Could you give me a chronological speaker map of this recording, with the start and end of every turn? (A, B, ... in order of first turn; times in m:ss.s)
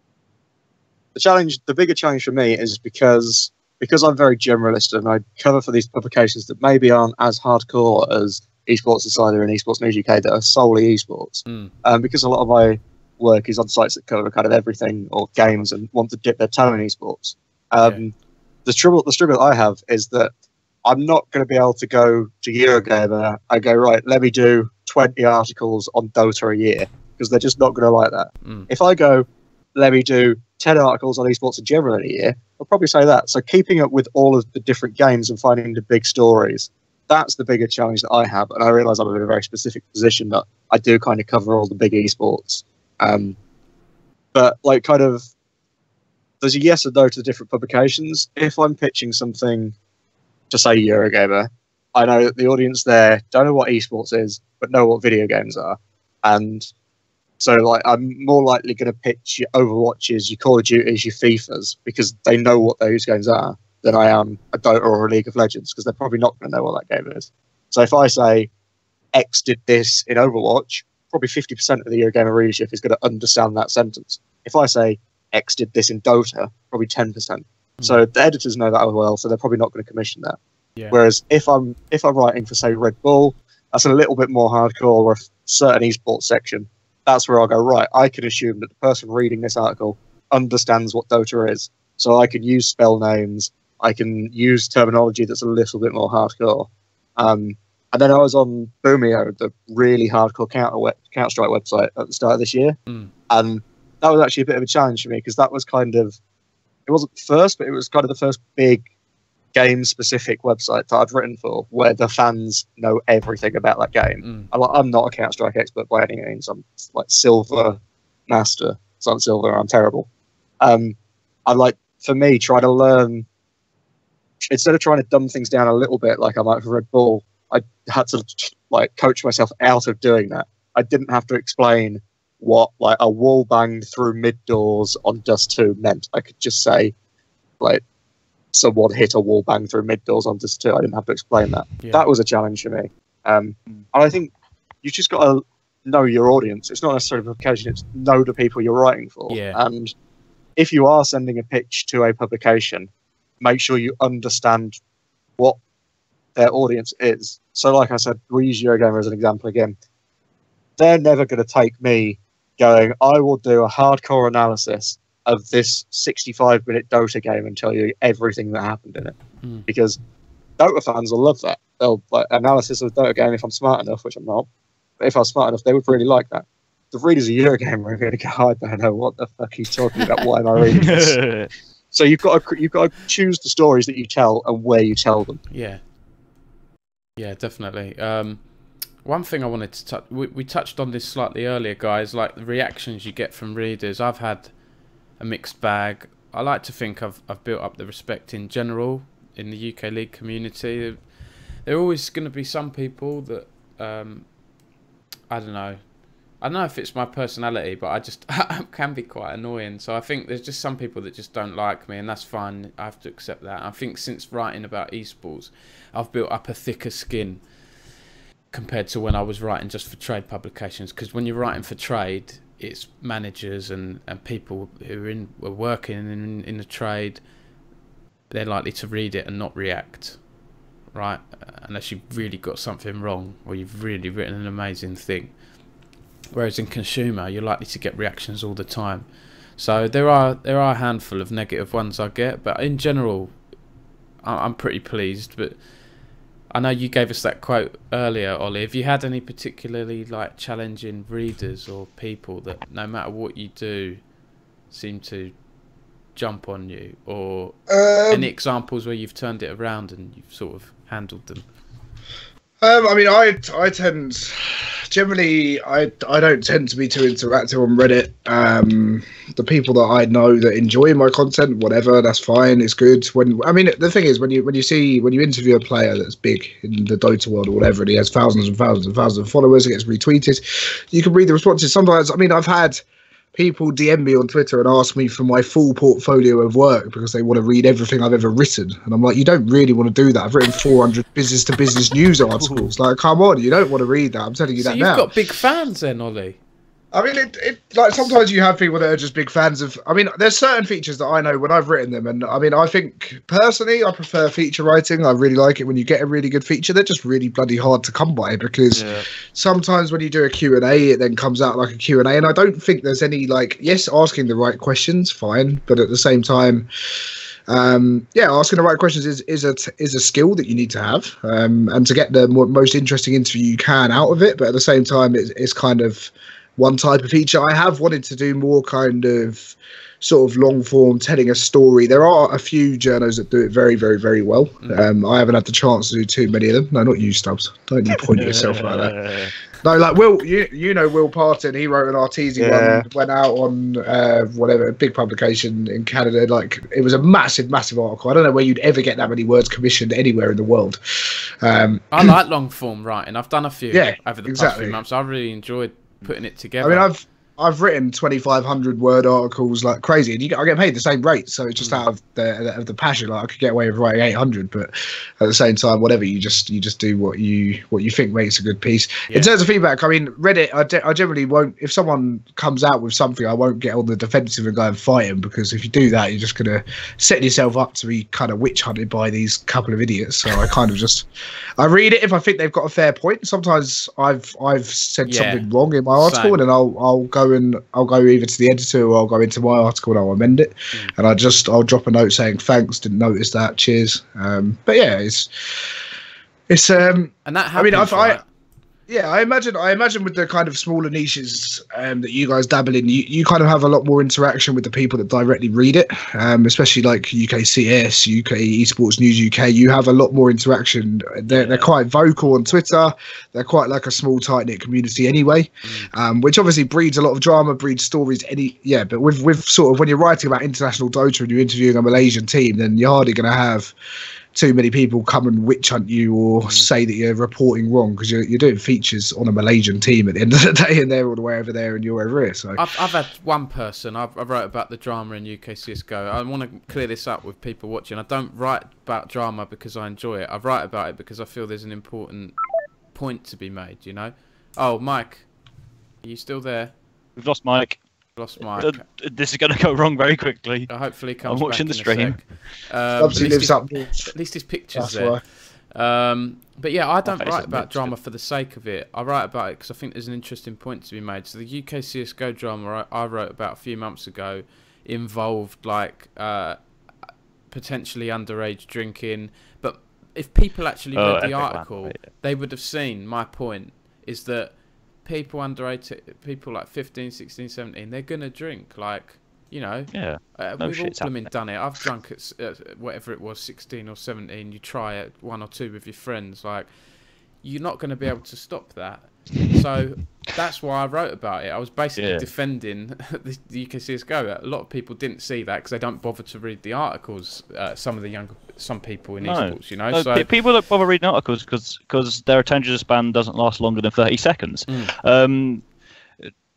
0:01.1-0:18.1 A
0:11.5-0:11.7 B
0:18.6-0:20.3 A
0:20.8-0:43.4 A
0:28.4-0:28.7 B
0:44.3-0:45.2 A
0:46.4-0:49.7 A
0:50.5-0:56.7 A
0:57.4-1:08.5 A
1:09.1-1:20.4 A
1:20.9-1:42.8 A
1:43.3-1:46.2 A
1:46.9-1:48.8 A
1:49.5-2:00.1 A
1:54.2-1:54.5 B
2:00.6-2:03.2 A
2:04.5-2:16.9 A
2:18.5-2:24.3 A
2:21.8-2:22.0 B
2:24.8-2:29.9 A
2:29.3-2:29.6 B
2:30.6-2:32.9 A
2:33.4-2:34.8 A
2:36.4-2:39.7 A
2:40.8-2:49.1 A
2:49.4-2:49.7 B
2:49.7-2:50.0 A
2:50.6-2:54.5 A
2:55.0-3:01.3 A
3:00.7-3:01.5 C
3:01.9-3:05.4 A
3:05.5-3:05.8 B
3:07.2-3:08.5 B
3:09.0-3:14.5 B
3:15.2-3:21.0 B
3:21.6-3:24.3 B
3:25.3-3:25.8 B
3:26.4-3:37.4 B
3:38.5-3:47.2 B
3:48.3-3:50.2 B
3:50.9-3:55.3 B
3:56.3-4:03.3 B
4:04.2-4:05.6 B
4:06.5-4:14.0 B
4:14.7-4:15.3 B
4:16.1-4:17.6 B
4:17.7-4:18.3 D
4:18.1-4:21.4 B
4:22.6-4:55.1 D
4:52.3-4:52.7 C
4:54.6-4:56.4 B
4:56.9-5:16.7 D
5:08.7-5:09.1 C
5:17.5-5:38.9 D
5:38.1-5:39.3 C
5:39.6-5:52.1 D
5:42.4-5:42.8 A
5:51.9-5:56.9 B
5:53.7-5:54.8 D
5:56.6-6:21.1 D
6:01.6-6:01.8 B
6:21.6-6:35.3 D
6:25.0-6:26.4 B
6:36.5-6:38.2 D
6:37.2-6:38.2 B
6:38.9-7:03.7 D
6:55.6-6:55.9 B
7:04.3-7:12.6 D
7:12.6-7:22.4 B
7:22.9-7:25.3 B
7:26.0-7:26.7 B
7:27.2-7:27.8 C
7:28.2-7:28.8 B
7:28.5-7:30.7 C
7:30.7-7:46.6 B
7:31.2-7:32.2 C
7:33.0-7:34.1 D
7:34.7-7:35.2 D
7:37.0-7:37.9 C
7:47.5-8:06.7 B
7:50.9-7:52.1 C
7:59.9-8:01.2 C
8:07.4-8:20.2 B
8:12.0-8:12.2 C
8:19.2-8:25.6 C